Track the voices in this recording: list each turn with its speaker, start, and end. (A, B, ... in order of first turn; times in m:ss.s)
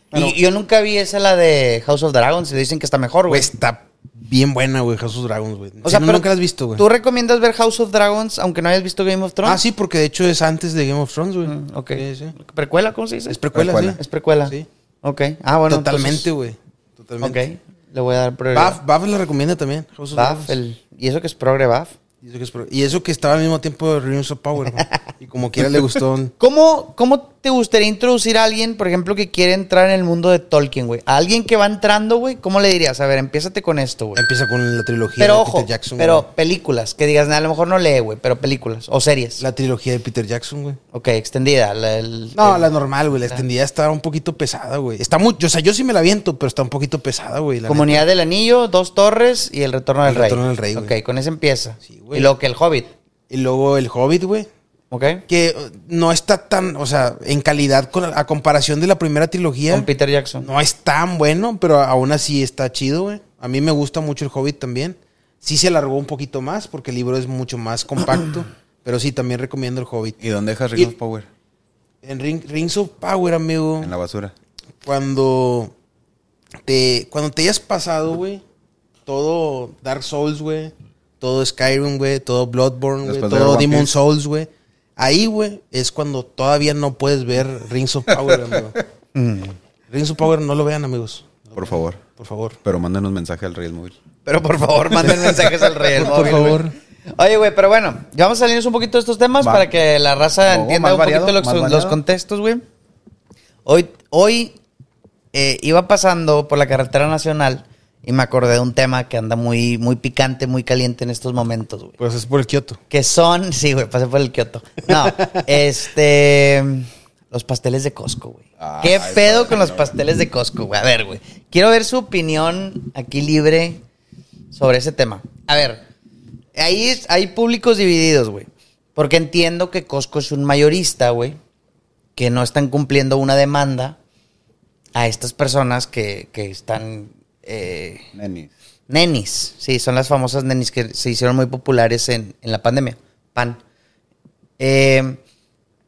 0:00.1-0:03.5 A
0:03.3-0:06.8 B
0:05.8-0:06.3 A
0:06.8-0:09.6 A
0:09.4-0:12.4 B
0:11.4-0:13.4 A
0:13.3-0:14.7 B
0:13.5-0:14.0 C
0:14.0-0:16.2 A
0:15.7-0:17.4 B
0:17.2-0:18.8 A
0:18.5-0:20.6 B
0:20.2-0:21.9 A
0:22.2-0:26.3 B
0:26.4-0:34.2 A
0:34.2-0:36.3 B
0:35.2-0:39.4 A
0:39.4-0:40.8 B
0:40.9-0:42.7 A
0:42.4-0:48.0 B
0:47.7-0:52.9 A
0:50.1-0:51.0 B
0:51.8-0:52.3 B
0:53.3-0:54.5 B
0:54.9-0:55.2 A
0:55.3-0:59.9 B
0:59.7-1:00.5 A
1:00.4-1:10.2 B
1:10.2-1:11.3 C
1:12.0-1:13.9 B
1:13.8-1:14.3 C
1:14.8-1:15.7 B
1:16.7-1:18.4 B
1:19.1-1:28.8 B
1:23.0-1:24.0 C
1:28.3-1:28.6 C
1:29.2-1:29.5 A
1:29.9-1:32.6 B
1:31.6-1:32.0 C
1:32.6-1:34.0 C
1:34.3-1:36.6 A
1:35.9-1:36.8 B
1:37.2-1:42.6 A
1:39.4-1:39.7 C
1:40.4-1:42.0 C
1:43.7-1:44.5 A
1:45.3-1:51.9 A
1:52.0-1:52.8 B
1:52.9-2:03.8 A
1:58.6-1:59.9 C
2:04.5-2:05.8 A
2:06.6-2:11.4 A
2:12.2-2:13.9 A
2:15.0-2:18.0 A
2:18.2-2:18.5 C
2:18.9-2:23.6 A
2:24.6-2:25.2 A